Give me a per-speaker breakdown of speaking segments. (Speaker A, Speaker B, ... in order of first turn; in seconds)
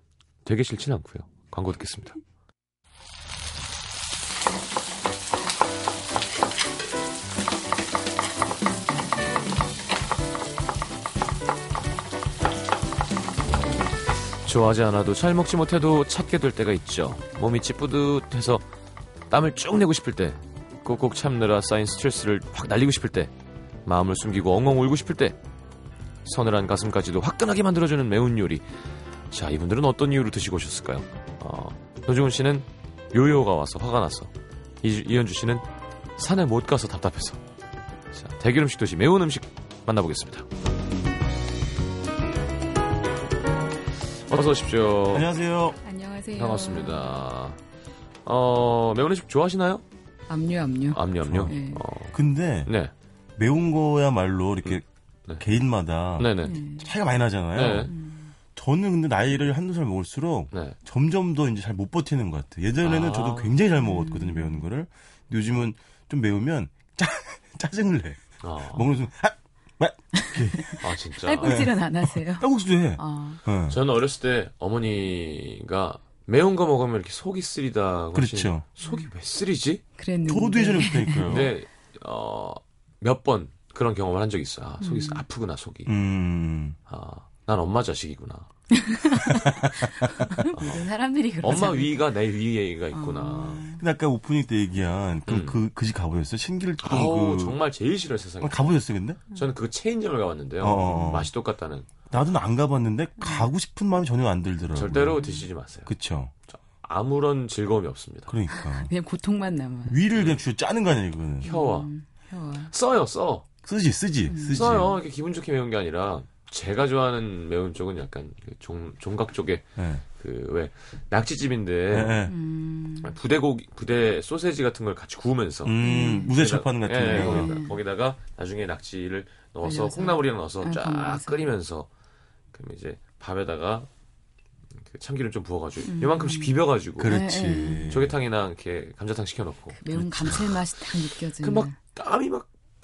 Speaker A: 0.4-2.2, 14.2-18.6, 19.3-23.3, 23.9-25.4, 26.2-28.6, 29.3-35.6, 36.2-37.4, 38.1-40.5, 44.3-45.3, 46.4-47.6, 48.2-49.8, 50.9-52.9, 56.2-56.6, 57.5-57.9, 62.8-63.5, 68.4-68.9, 70.8-71.6, 73.7-79.8, 81.3-85.9, 86.9-88.5, 90.5-90.8, 91.4-93.6, 95.3-95.6, 96.8-98.7, 99.3-101.9, 104.7-105.9, 106.5-108.3, 111.4-111.9, 112.7-113.5, 114.5-119.6, 120.2-122.2, 123.0-125.8, 126.3-131.9, 132.5-133.9, 134.8-137.1, 137.9-139.8, 141.4-142.5
Speaker B: 45.1-45.8, 51.2-51.5, 52.1-52.7, 53.4-54.8, 55.4-57.9, 58.5-70.9, 71.4-73.8, 78.1-78.6, 80.2-81.5, 85.8-86.8, 93.7-97.6, 98.4-99.2, 100.6-101.3, 102.1-105.2, 105.8-106.3, 108.3-108.9, 109.9-111.5, 113.6-115.0, 119.8-120.0, 121.9-122.3, 125.6-127.6, 137.0-138.2, 139.9-140.6
Speaker C: 45.8-47.2, 50.3-51.8, 56.4-56.9, 57.9-58.3, 63.8-64.6, 70.1-73.4, 80.0-81.3, 84.8-85.2, 88.7-92.1, 92.9-93.8, 100.9-101.1, 103.2-103.5, 105.2-105.4, 108.5-110.0, 111.4-112.7, 114.3-114.7, 122.3-123.1, 125.8-126.3, 127.1-127.7, 129.6-131.4, 135.9-137.9, 139.7-141.8